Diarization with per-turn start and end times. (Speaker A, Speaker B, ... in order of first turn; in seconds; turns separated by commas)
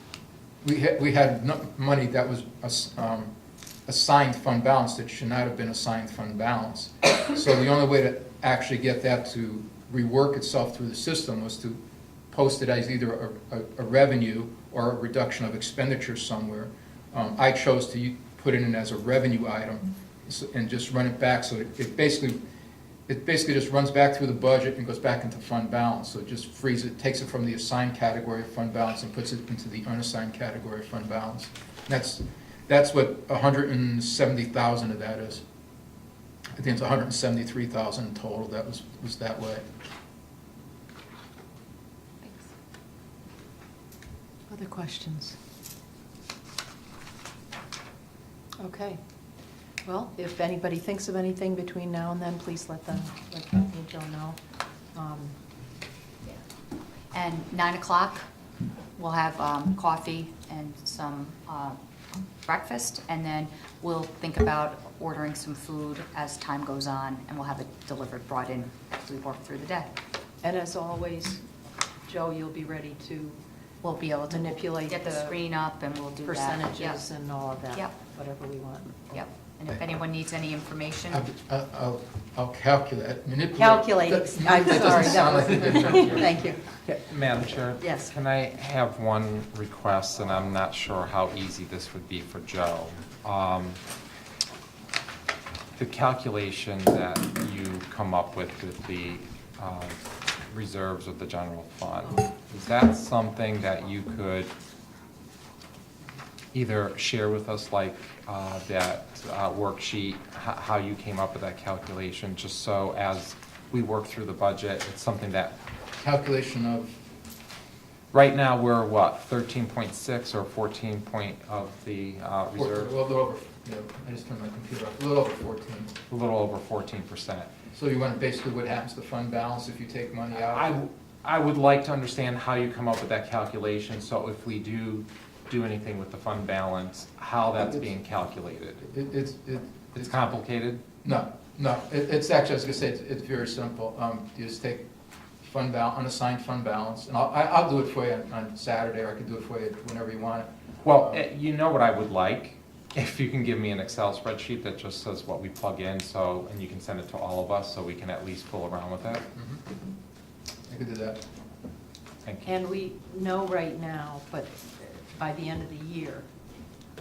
Speaker A: 0.6-3.3, Speaker A: 3.9-11.8, Speaker A: 12.3-22.4, Speaker A: 23.1-35.4, Speaker A: 36.5-39.6, Speaker B: 44.5-45.4, Speaker B: 48.6-49.0, Speaker B: 49.9-54.4, Speaker B: 55.0-55.4, Speaker C: 57.1-58.2, Speaker C: 59.0-61.8, Speaker C: 62.4-69.9, Speaker B: 70.4-71.4, Speaker B: 72.1-73.4, Speaker C: 73.8-77.0, Speaker B: 74.3-75.4, Speaker B: 76.2-79.0, Speaker C: 79.1-81.2, Speaker A: 81.1-86.5, Speaker B: 83.6-86.6, Speaker D: 85.8-86.2, Speaker D: 86.9-93.8, Speaker B: 87.8-88.1, Speaker D: 95.8-100.0, Speaker D: 100.5-104.5, Speaker D: 106.5-115.5, Speaker A: 116.0-117.0, Speaker D: 118.1-122.9, Speaker A: 122.5-126.0, Speaker D: 126.1-127.5, Speaker A: 127.7-130.8, Speaker D: 130.3-138.9, Speaker A: 138.9-140.0, Speaker D: 139.9-140.8, Speaker A: 141.0-144.8, Speaker A: 145.4-151.2, Speaker D: 150.8-159.2, Speaker A: 159.4-159.6, Speaker A: 160.7-161.2, Speaker D: 162.2-162.5, Speaker B: 162.4-166.2